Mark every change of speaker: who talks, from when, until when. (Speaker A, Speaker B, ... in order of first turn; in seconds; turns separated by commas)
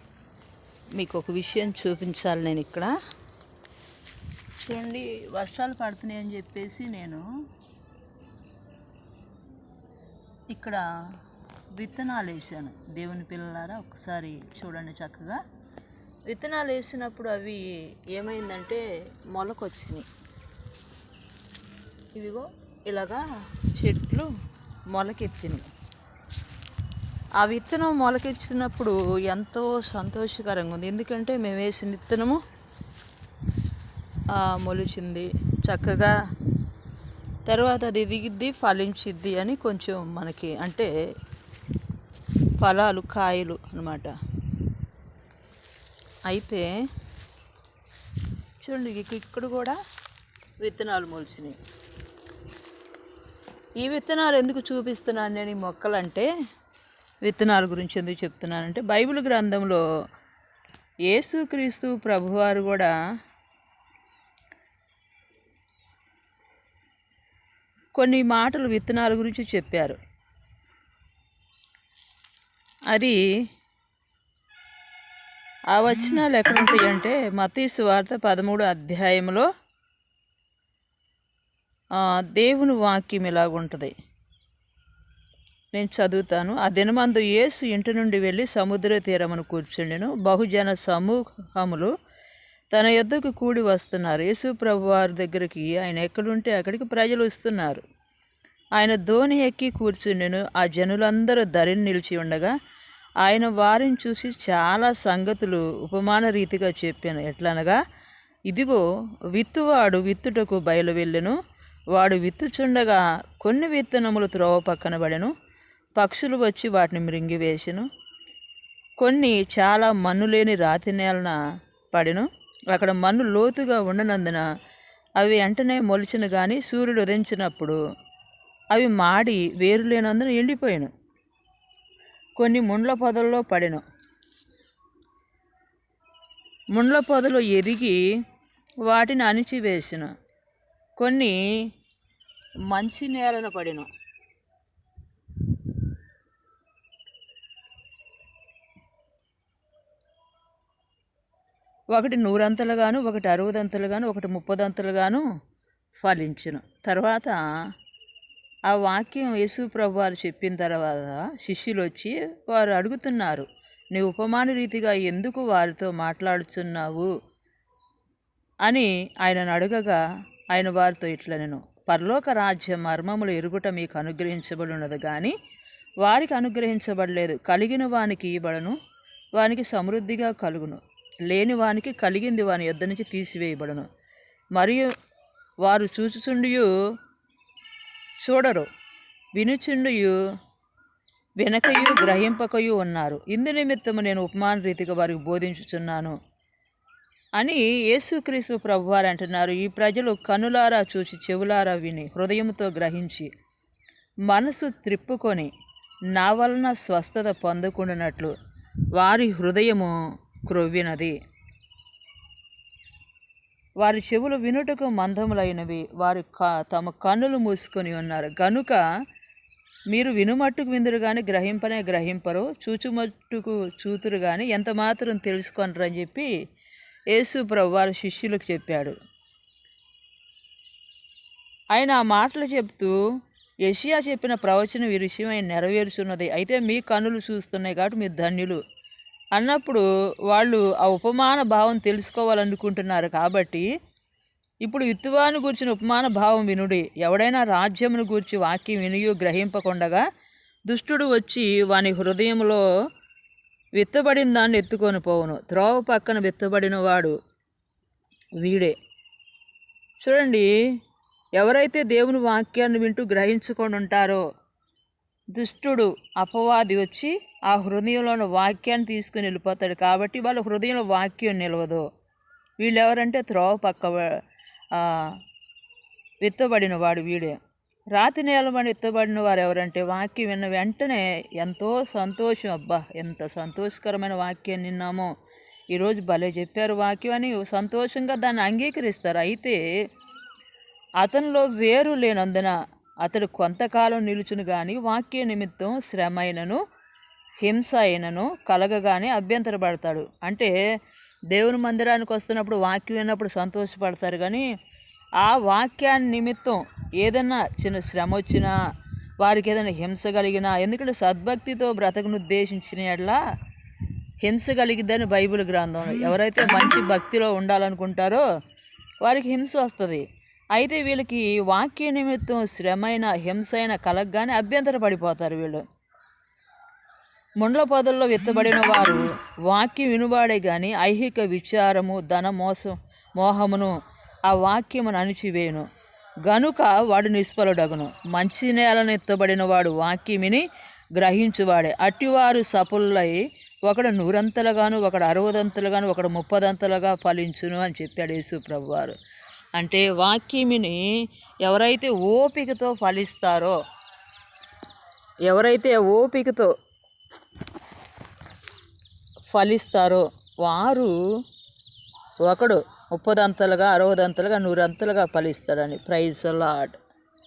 Speaker A: 0.9-2.9, Speaker A: 4.6-7.2, Speaker A: 10.5-10.8, Speaker A: 11.8-15.4, Speaker A: 16.3-20.1, Speaker A: 22.1-24.3, Speaker A: 24.9-25.7, Speaker A: 27.4-32.4, Speaker A: 34.3-36.1, Speaker A: 37.5-40.9, Speaker A: 42.6-44.1, Speaker A: 46.3-46.7, Speaker A: 48.6-49.8, Speaker A: 50.6-51.6, Speaker A: 53.8-56.3, Speaker A: 57.2-59.8, Speaker A: 61.1-62.9, Speaker A: 67.9-70.0, Speaker A: 72.9-73.2, Speaker A: 75.7-79.5, Speaker A: 81.9-83.9, Speaker A: 85.7-91.9, Speaker A: 92.7-97.8, Speaker A: 98.8-102.5, Speaker A: 103.2-107.8, Speaker A: 108.5-111.3, Speaker A: 111.9-115.3, Speaker A: 116.0-117.8, Speaker A: 119.0-121.4, Speaker A: 121.9-124.4, Speaker A: 125.2-127.8, Speaker A: 128.7-130.9, Speaker A: 132.4-133.8, Speaker A: 136.7-138.0, Speaker A: 138.9-140.1, Speaker A: 141.0-141.3, Speaker A: 142.7-143.9, Speaker A: 151.9-155.2, Speaker A: 156.0-157.4, Speaker A: 158.7-167.1, Speaker A: 168.6-170.0, Speaker A: 170.5-175.3, Speaker A: 176.0-178.8, Speaker A: 179.3-183.8, Speaker A: 184.5-184.9, Speaker A: 185.6-186.7, Speaker A: 188.2-188.7, Speaker A: 189.3-190.1, Speaker A: 191.4-196.1, Speaker A: 197.4-203.3, Speaker A: 204.3-205.5, Speaker A: 206.1-208.3, Speaker A: 208.9-211.2, Speaker A: 213.8-218.8, Speaker A: 219.9-226.3, Speaker A: 227.1-228.9, Speaker A: 231.7-232.9, Speaker A: 233.6-238.6, Speaker A: 239.3-243.7, Speaker A: 244.6-250.0, Speaker A: 250.7-252.6, Speaker A: 253.8-257.1, Speaker A: 258.4-258.7, Speaker A: 260.0-260.5, Speaker A: 261.4-264.2, Speaker A: 265.3-271.8, Speaker A: 272.6-274.1, Speaker A: 274.7-275.2, Speaker A: 276.2-277.4, Speaker A: 277.9-285.1, Speaker A: 285.7-289.6, Speaker A: 291.0-296.6, Speaker A: 297.4-300.5, Speaker A: 301.3-304.4, Speaker A: 305.2-308.5, Speaker A: 309.2-313.2, Speaker A: 314.2-318.2, Speaker A: 319.0-325.6, Speaker A: 327.4-333.7, Speaker A: 334.3-335.6, Speaker A: 336.2-340.4, Speaker A: 341.0-348.9, Speaker A: 349.6-350.8, Speaker A: 351.4-353.6, Speaker A: 355.2-356.5, Speaker A: 359.3-360.9, Speaker A: 362.2-366.8